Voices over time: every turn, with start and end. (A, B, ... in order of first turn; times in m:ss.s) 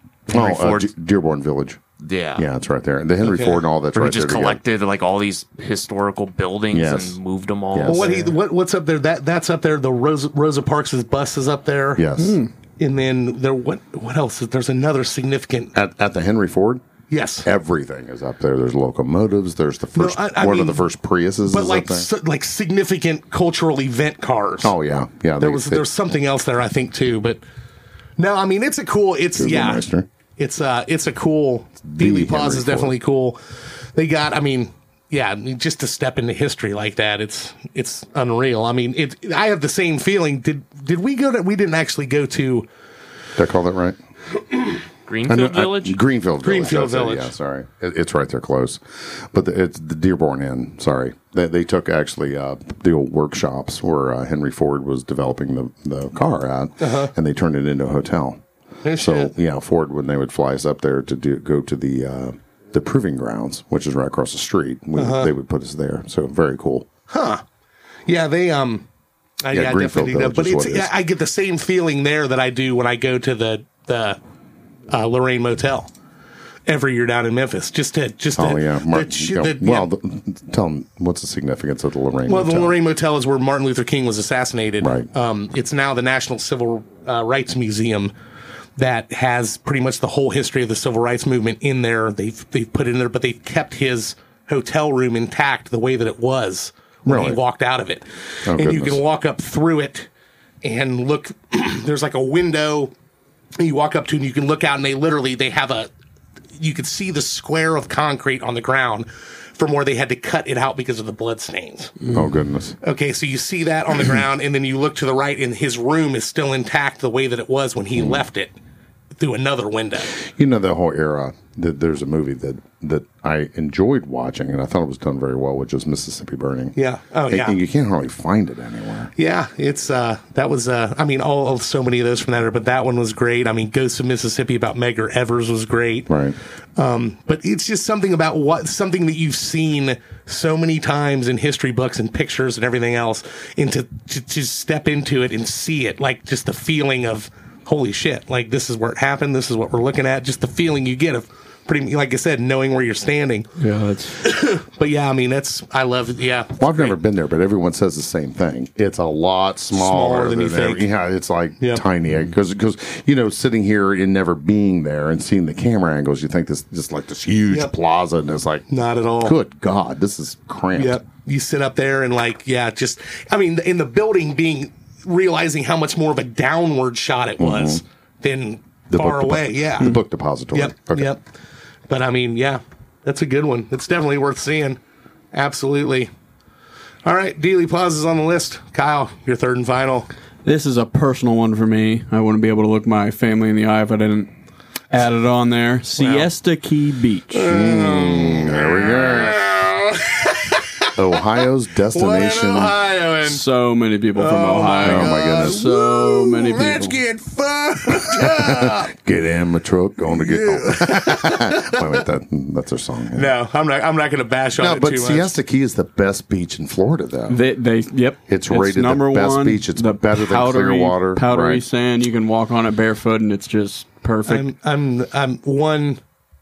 0:00.3-0:00.9 A
0:00.3-0:01.8 B
0:02.0-0:02.4 A
0:02.4-0:04.6 B
0:03.2-0:03.6 C
0:03.9-0:08.3 A
0:06.7-0:07.2 B
0:07.7-0:08.1 B
0:07.9-0:12.0 C
0:12.0-0:12.4 B
0:12.2-0:12.5 D
0:12.8-0:15.7 C
0:15.7-0:16.8 B
0:17.1-0:17.5 C
0:17.4-0:22.1 B
0:19.9-0:20.8 C
0:21.5-0:24.7 C
0:24.6-0:25.8 B
0:25.4-0:27.4 C
0:28.2-0:29.8 C
0:29.4-0:30.1 B
0:30.4-0:33.4 C
0:31.8-0:32.9 B
0:33.9-0:42.7 C
0:43.4-0:44.0 B
0:45.1-0:46.0 A
0:45.3-0:58.4 B
0:46.4-0:47.3 C
0:56.8-0:57.1 C
0:58.8-0:59.3 C
0:59.0-1:06.9 B
1:05.0-1:05.3 C
1:07.1-1:07.4 C
1:08.0-1:08.8 C
1:09.4-1:14.2 C
1:09.5-1:10.9 B
1:14.9-1:15.9 C
1:16.7-1:19.9 C
1:18.3-1:22.8 B
1:22.3-1:28.1 C
1:24.8-1:25.1 B
1:28.8-1:40.1 C
1:37.0-1:37.4 B
1:38.4-1:39.0 B
1:40.6-1:42.9 C
1:43.6-1:45.9 C
1:46.6-1:51.9 C
1:52.1-1:52.8 B
1:52.8-1:58.5 C
1:58.0-1:58.2 B
1:59.2-2:00.1 C
2:00.1-2:06.8 B
2:06.8-2:07.6 C
2:07.3-2:09.1 B
2:09.2-2:16.1 C
2:16.1-2:16.4 B
2:16.8-2:33.5 C
2:33.6-2:34.2 D
2:34.2-2:37.0 C
2:36.6-2:48.7 B
2:39.7-2:40.9 C
2:48.7-2:49.4 C
2:49.2-2:51.0 B
2:50.7-3:00.0 C
2:57.4-2:57.8 B
2:58.9-3:01.1 B
3:00.5-3:01.2 C
3:01.9-3:04.8 C
3:05.3-3:06.1 C
3:07.0-3:10.1 C
3:10.4-3:14.3 D
3:14.9-3:17.5 D
3:16.0-3:16.3 C
3:17.3-3:20.9 C
3:17.5-3:19.4 B
3:20.9-3:22.8 B
3:21.9-3:23.4 C
3:23.2-3:27.0 D
3:24.1-3:28.9 C
3:24.8-3:25.6 B
3:28.1-3:33.3 B
3:30.1-3:31.8 C
3:33.1-3:35.3 C
3:34.6-3:37.4 B
3:37.3-3:44.5 D
3:38.3-3:41.6 B
3:44.2-3:46.0 C